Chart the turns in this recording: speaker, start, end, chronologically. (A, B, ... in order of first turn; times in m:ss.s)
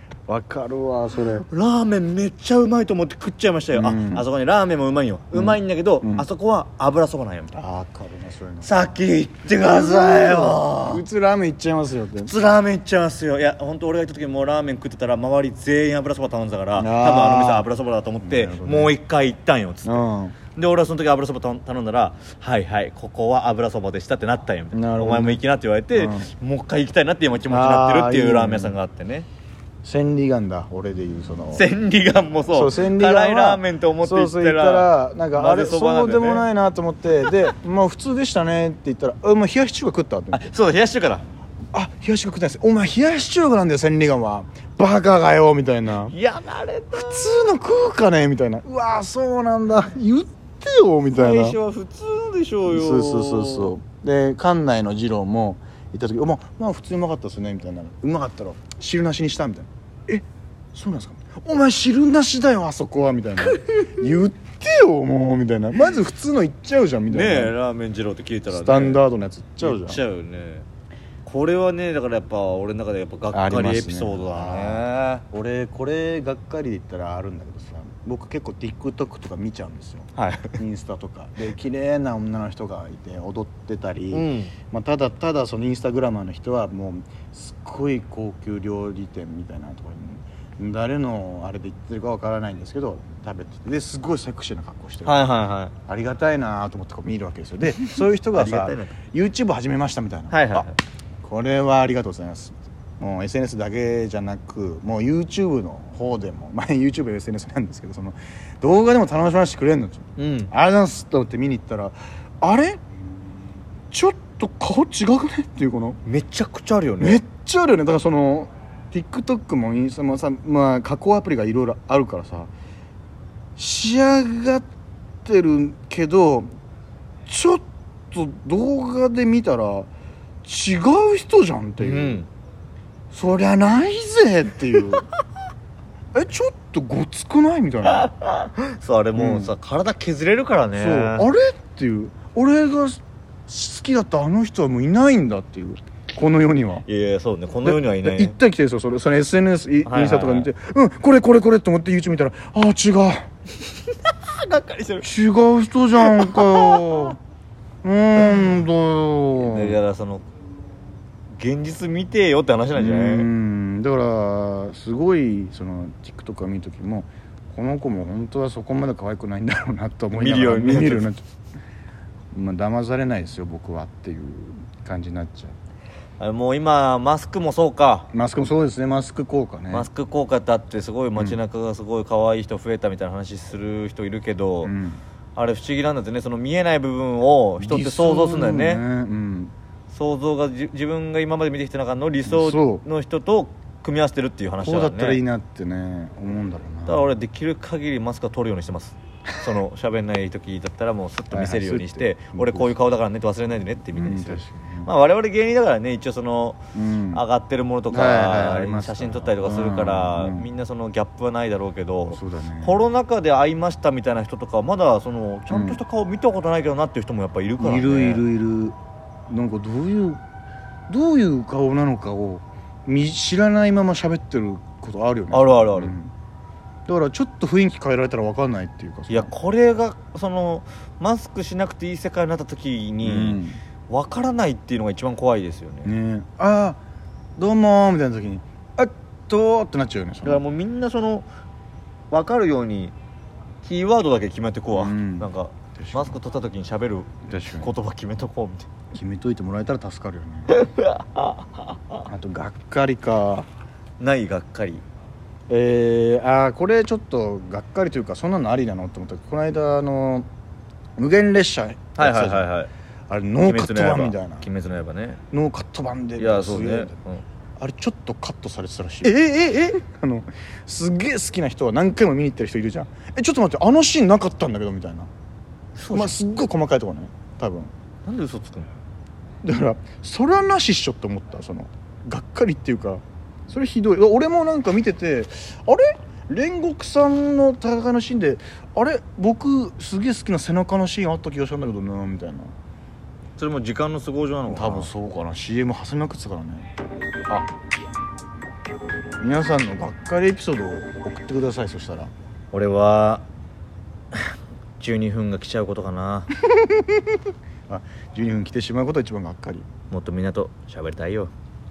0:00.3-0:01.4 A
0:01.5-0:07.5 B
0:03.7-0:04.2 A
0:05.3-0:06.2 A
0:07.5-0:08.7 A
0:08.6-0:11.0 B
0:09.6-0:12.3 A
0:12.2-0:29.3 B
0:16.8-0:17.7 A
0:18.2-0:18.9 A
0:19.8-0:20.4 A
0:24.7-0:25.4 A
0:25.9-0:26.3 A
0:27.5-0:28.8 A
0:29.8-0:31.6 A
0:31.5-0:36.5 B
0:32.5-0:40.4 A
0:40.3-0:41.2 B
0:41.7-0:46.1 A
0:46.0-0:47.4 B
0:46.9-0:51.6 A
0:51.1-0:53.7 B
0:52.6-1:07.5 A
1:03.5-1:03.8 B
1:07.1-1:09.0 B
1:08.5-1:10.0 A
1:09.6-1:10.6 B
1:11.2-1:15.2 B
1:13.3-1:35.3 A
1:20.2-1:20.6 B
1:24.1-1:24.5 B
1:35.0-1:35.7 B
1:35.9-1:40.7 A
1:38.3-1:38.9 B
1:40.3-1:40.8 B
1:41.2-1:52.8 A
1:50.2-1:50.5 B
1:53.9-1:56.0 A
1:56.0-1:57.2 B
1:57.0-2:02.5 A
2:03.6-2:04.6 A
2:05.2-2:06.5 A
2:07.2-2:09.9 A
2:10.4-2:12.2 A
2:11.8-2:12.3 B
2:13.1-2:15.0 A
2:16.1-2:18.1 A
2:17.9-2:21.3 B
2:19.2-2:19.5 A
2:20.8-2:26.8 A
2:26.8-2:28.4 B
2:27.6-2:33.3 A
2:29.8-2:30.5 B
2:34.0-2:35.0 B
2:35.0-2:37.2 A
2:36.1-2:37.1 B
2:37.8-2:39.8 A
2:38.2-2:38.5 B
2:39.4-2:40.2 B
2:41.3-2:43.3 B
2:42.8-2:51.2 A
2:50.1-2:51.1 B
2:52.3-2:55.5 A
2:56.2-2:58.1 B
2:58.1-2:59.9 A
2:59.7-3:04.7 B
3:04.6-3:05.0 A
3:05.4-3:08.8 B
3:07.6-3:09.5 A
3:09.9-3:15.2 B
3:12.2-3:12.8 A
3:14.6-3:17.1 A
3:16.8-3:26.6 B
3:21.3-3:22.7 A
3:23.9-3:24.9 A
3:26.7-3:27.2 A
3:27.1-3:38.2 B
3:27.9-3:30.5 A
3:32.1-3:32.8 A
3:35.5-3:35.8 A
3:37.6-3:38.7 A
3:39.3-3:40.2 A
3:40.9-3:46.1 A
3:45.3-3:46.0 B
3:46.8-3:49.3 A
3:49.1-3:55.9 B
3:53.0-3:53.6 A
3:55.8-3:56.8 A
3:57.4-4:00.4 A
4:00.2-4:01.2 B
4:02.1-4:02.9 B
4:03.6-4:08.7 B
4:04.7-4:06.2 A
4:07.3-4:07.7 A
4:08.9-4:10.5 A
4:10.5-4:11.4 B
4:12.0-4:13.5 A
4:14.0-4:14.8 B
4:15.5-4:20.3 A
4:21.0-4:22.5 A
4:22.0-4:22.7 B
4:23.1-4:24.5 A
4:23.4-4:25.2 B
4:25.3-4:27.0 A
4:26.2-4:27.2 B
4:27.6-4:35.1 A
4:29.0-4:29.8 B
4:35.8-4:36.2 B
4:35.9-4:37.7 A
4:38.0-4:38.7 B
4:39.4-4:52.5 A
4:53.4-4:54.9 B
4:54.5-4:56.7 A
4:59.2-5:02.1 A
5:02.5-5:03.2 B
5:04.1-5:06.3 B
5:06.4-5:09.6 A
5:09.9-5:11.3 B